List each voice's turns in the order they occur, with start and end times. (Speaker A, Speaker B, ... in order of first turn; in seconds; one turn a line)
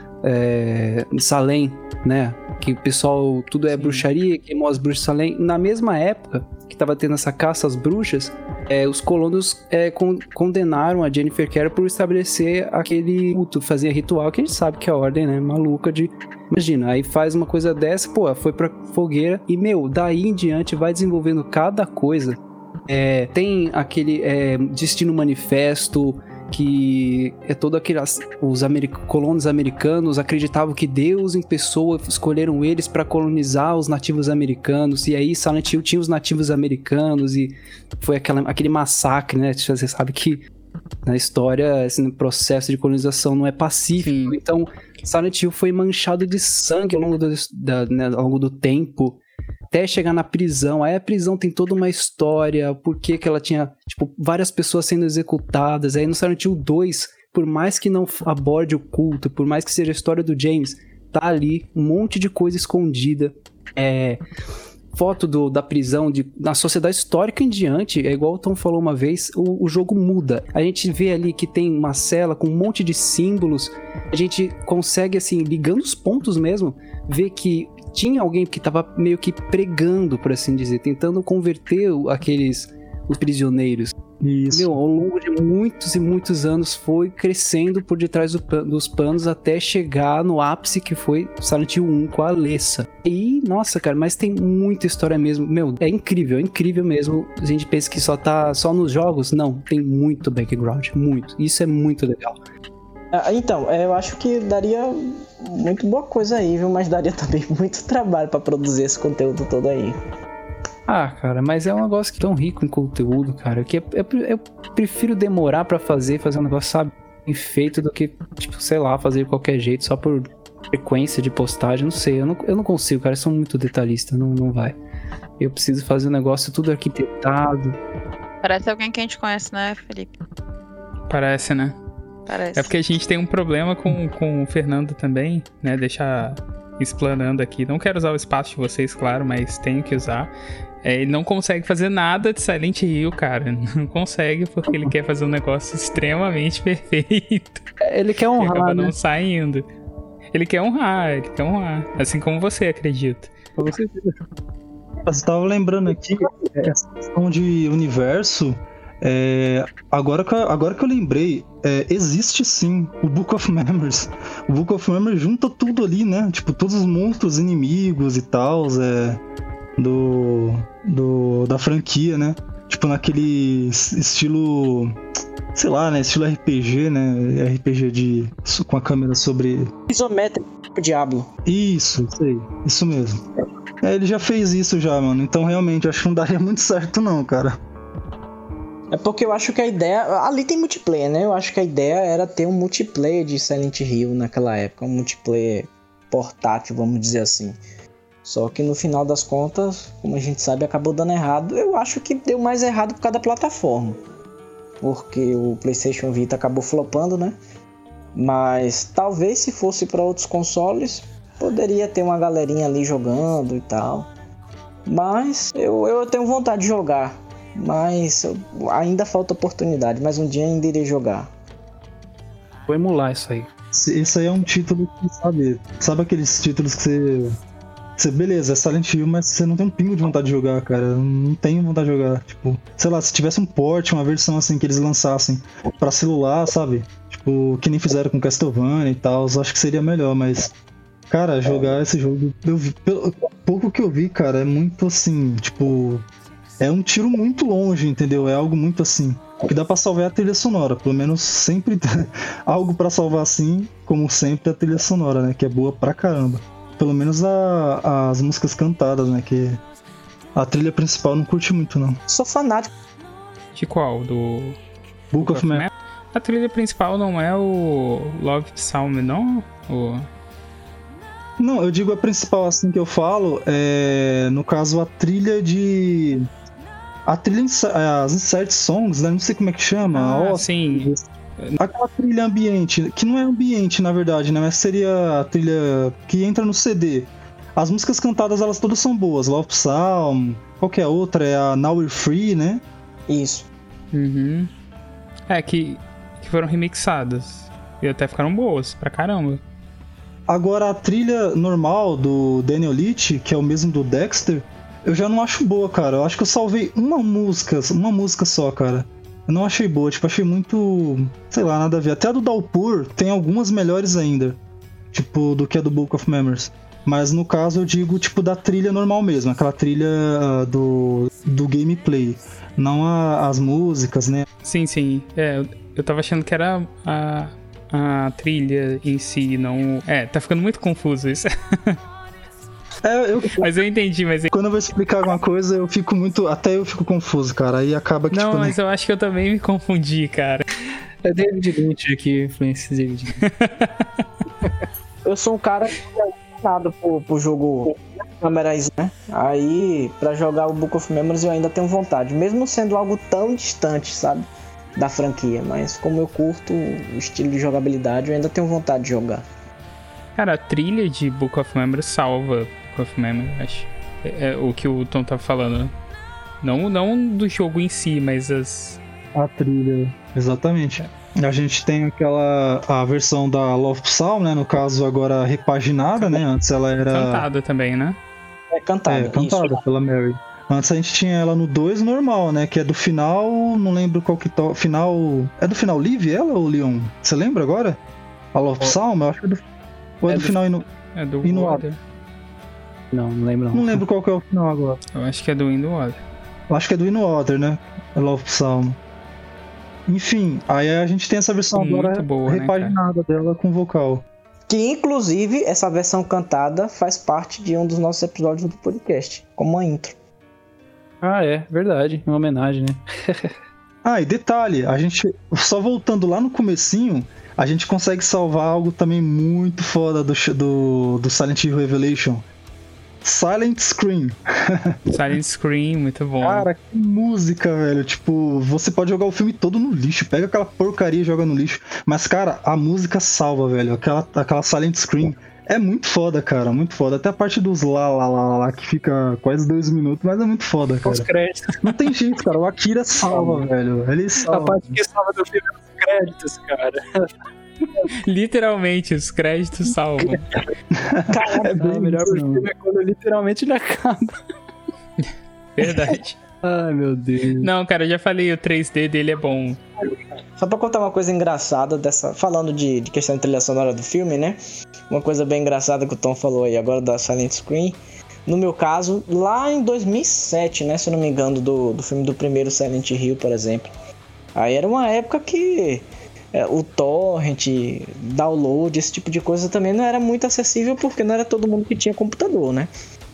Speaker A: 0.2-40.4
Speaker B: 3.8-4.1
Speaker A: 41.0-49.2
Speaker B: 44.0-44.4
Speaker A: 49.7-64.2
Speaker A: 64.9-84.0
Speaker C: 84.2-84.7
Speaker A: 84.5-102.4
Speaker D: 103.1-110.0
Speaker A: 110.9-124.8
Speaker A: 125.4-127.8
Speaker E: 128.4-130.2
Speaker B: 131.1-131.8
Speaker E: 132.3-132.7
Speaker B: 132.6-147.6
Speaker A: 147.8-148.9
Speaker B: 148.4-149.7
Speaker B: 150.3-153.4
Speaker A: 153.6-154.2
Speaker C: 155.1-169.2
Speaker C: 169.8-175.0
Speaker C: 175.5-179.7
Speaker D: 179.9-181.3
Speaker C: 181.5-183.2
Speaker C: 183.8-187.6
Speaker D: 188.9-197.6
Speaker D: 198.2-204.0
Speaker D: 204.8-207.4
Speaker D: 208.2-214.1
Speaker D: 214.9-221.3
Speaker A: 222.7-223.5
Speaker C: 223.7-227.3
Speaker C: 228.0-240.5
Speaker C: 241.1-246.0
Speaker C: 246.6-259.6
Speaker C: 260.4-262.0
Speaker D: 262.1-262.7
Speaker B: 263.5-264.6
Speaker C: 265.1-265.7
Speaker B: 265.2-270.1
Speaker C: 271.4-276.3
Speaker C: 277.1-281.1
Speaker B: 279.9-281.6
Speaker C: 281.6-292.6
Speaker D: 293.1-293.5
Speaker B: 293.9-294.5
Speaker B: 295.3-299.4
Speaker C: 300.3-314.4
Speaker C: 314.9-324.3
Speaker B: 324.4-331.8
Speaker C: 332.8-333.5
Speaker B: 333.4-334.3
Speaker C: 334.3-338.6
Speaker B: 338.1-340.4
Speaker A: 341.0-343.2
Speaker B: 343.2-343.9
Speaker D: 345.1-359.2
Speaker B: 360.2-365.7
Speaker B: 366.4-368.8
Speaker C: 369.1-377.3
Speaker B: 376.9-378.0
Speaker D: 378.5-379.7
Speaker C: 378.9-387.8
Speaker C: 388.3-389.4
Speaker C: 390.0-390.7
Speaker A: 390.1-390.4
Speaker B: 390.9-391.8
Speaker C: 391.2-391.6
Speaker A: 392.9-393.8
Speaker C: 393.5-394.8
Speaker B: 394.9-396.0
Speaker C: 396.5-398.8
Speaker C: 399.9-404.0
Speaker B: 401.6-402.8
Speaker D: 404.5-410.0
Speaker A: 411.0-413.3
Speaker C: 413.8-422.2
Speaker C: 423.0-424.8
Speaker B: 424.9-426.5
Speaker C: 426.2-441.1
Speaker A: 440.8-441.6
Speaker C: 441.6-444.8
Speaker A: 443.1-443.4
Speaker A: 444.2-447.1
Speaker B: 448.1-450.3
Speaker A: 450.0-450.4
Speaker C: 450.8-452.5
Speaker D: 451.1-451.7
Speaker A: 451.6-454.2
Speaker B: 455.6-456.2
Speaker A: 456.4-457.5
Speaker B: 457.4-459.6
Speaker D: 460.4-464.4
Speaker D: 464.9-473.7
Speaker D: 474.4-482.7